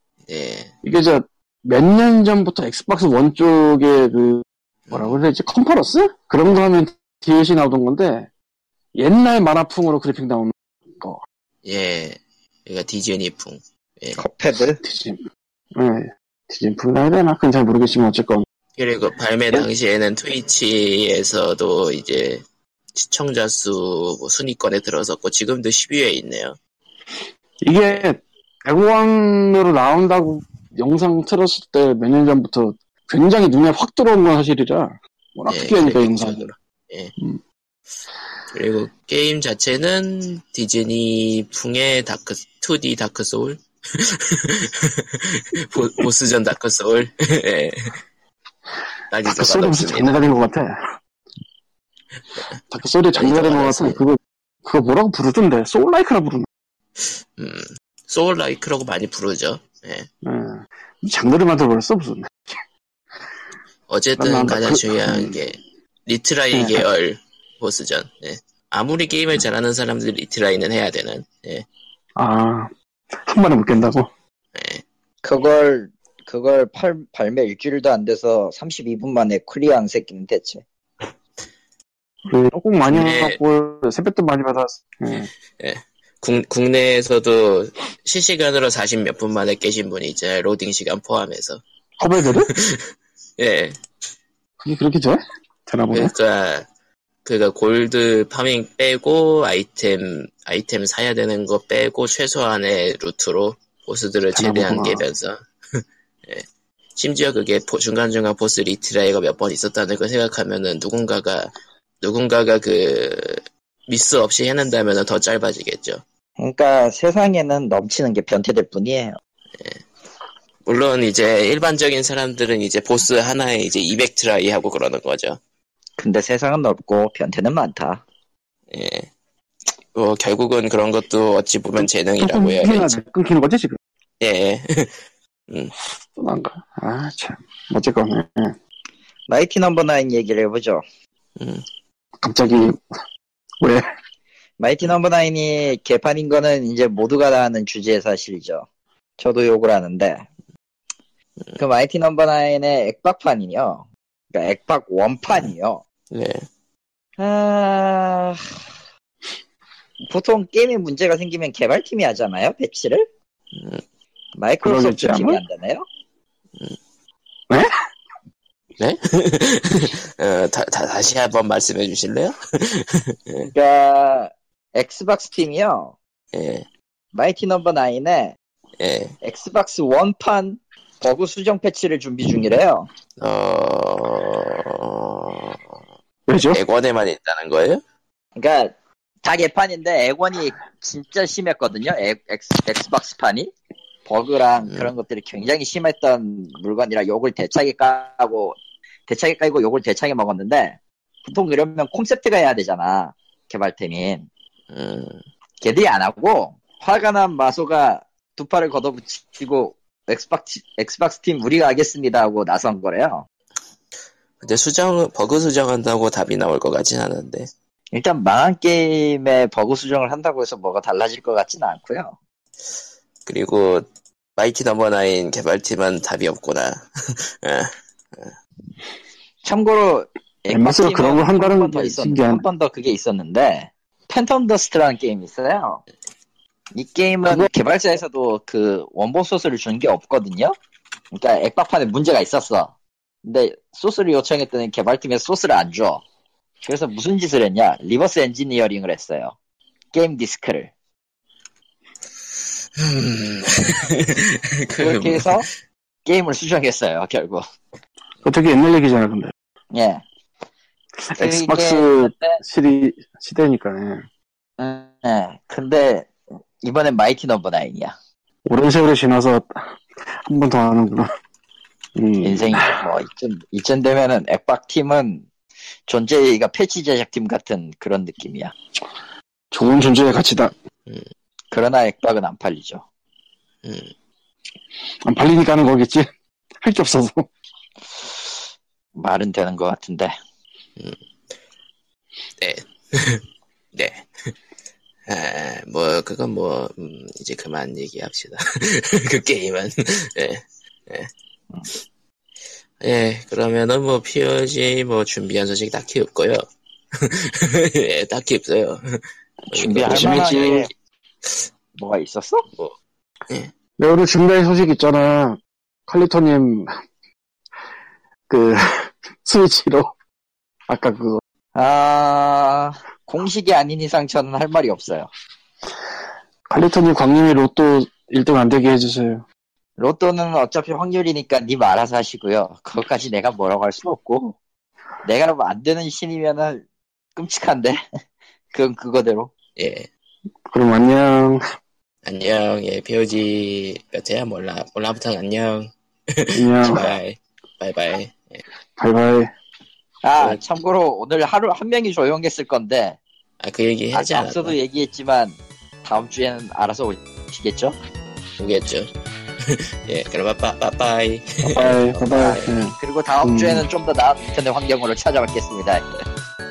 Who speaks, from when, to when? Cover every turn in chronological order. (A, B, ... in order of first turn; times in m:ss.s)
0:00.3-0:00.7 A
0:00.8-0:08.3 B
0:04.9-0:05.2 A
0:09.0-0:11.2 B
0:11.6-0:14.2 A
0:14.2-0:14.8 C
0:14.8-0:15.2 B
0:15.7-0:18.4 B
0:18.8-0:22.4 A
0:22.9-0:26.6 A
0:27.6-0:36.5 B
0:35.5-0:37.1 A
0:38.5-0:48.0 A
0:49.1-0:50.2 A
0:49.3-0:50.9 B
0:52.7-0:56.5 B
0:53.2-0:54.0 A
0:57.4-1:00.1 A
1:00.2-1:02.3 B
1:03.9-1:11.6 A
1:04.2-1:05.3 B
1:06.5-1:06.8 B
1:12.2-1:14.1 B
1:14.5-1:14.8 A
1:15.2-1:20.6 C
1:22.3-1:25.3 B
1:22.9-1:23.4 A
1:25.6-1:31.6 A
1:32.0-1:32.5 B
1:32.5-1:33.8 A
1:34.6-1:36.1 B
1:35.9-1:36.7 A
1:37.2-1:56.0 A
1:44.3-1:45.0 B
1:56.4-1:59.2 C
2:00.6-2:05.4 A
2:06.0-2:08.0 C
2:08.7-2:09.1 A
2:09.9-2:13.0 A
2:11.8-2:13.8 B
2:14.2-2:15.7 A
2:16.1-2:18.6 B
2:19.3-2:20.8 C
2:21.4-2:21.6 A
2:22.2-2:22.8 B
2:24.6-2:28.6 C
2:29.2-2:30.3 C
2:31.6-2:35.8 C
2:36.1-2:36.4 A
2:37.2-2:38.6 C
2:40.0-2:43.0 C
2:43.5-2:43.8 A
2:44.4-2:45.9 C
2:44.6-2:45.4 B
2:48.8-2:53.5 A
2:53.5-2:55.9 C
2:56.3-2:56.6 A
2:57.1-2:58.4 C
2:58.8-2:59.2 A
2:59.2-3:02.9 C
3:03.2-3:05.6 A
3:06.3-3:06.6 B
3:06.5-3:07.8 A
3:08.4-3:08.7 C
3:09.2-3:13.5 C
3:14.0-3:24.3 C
3:24.7-3:25.2 A
3:25.6-3:33.2 C
3:34.4-3:37.5 A
3:37.9-3:42.1 C
3:43.2-3:48.3 A
3:49.4-3:55.8 C
3:50.5-3:52.4 B
3:56.7-4:00.5 C
4:01.1-4:06.0 C
4:06.6-4:09.3 C
4:09.9-4:10.7 C
4:12.8-4:15.4 A
4:14.8-4:15.5 C
4:16.0-4:17.4 C
4:18.2-4:19.3 B
4:19.7-4:20.0 C
4:21.1-4:24.0 B
4:21.1-4:22.4 C
4:24.6-4:26.1 C
4:26.6-4:27.9 C
4:28.4-4:31.1 B
4:32.0-4:32.8 B
4:32.2-4:35.3 C
4:35.9-4:38.5 C
4:39.5-4:40.5 B
4:41.5-4:42.8 C
4:43.6-4:43.9 A
4:45.0-4:47.3 B
4:49.0-4:50.1 C
4:52.4-4:53.2 A
4:53.7-4:54.0 A
4:55.1-5:01.1 A
5:02.8-5:06.4 A
5:07.0-5:10.7 A
5:09.5-5:10.6 B
5:09.8-5:10.7 C
5:11.8-5:12.5 C
5:13.8-5:16.7 B
5:18.3-5:19.9 B
5:20.7-5:21.2 B
5:21.5-5:25.1 C
5:26.5-5:29.2 B
5:29.8-5:34.4 C
5:35.0-5:36.6 C
5:37.2-5:37.8 C
5:38.5-5:39.3 C
5:39.6-5:39.9 A
5:40.5-5:41.4 B
5:42.0-5:48.4 A
5:46.3-5:46.8 B
5:48.8-5:49.3 B
5:50.0-5:53.0 C
5:53.4-5:54.6 A
5:53.9-5:57.8 C
5:58.4-5:58.9 A
5:59.4-6:02.5 A
6:01.4-6:03.6 B
6:02.0-6:05.9 C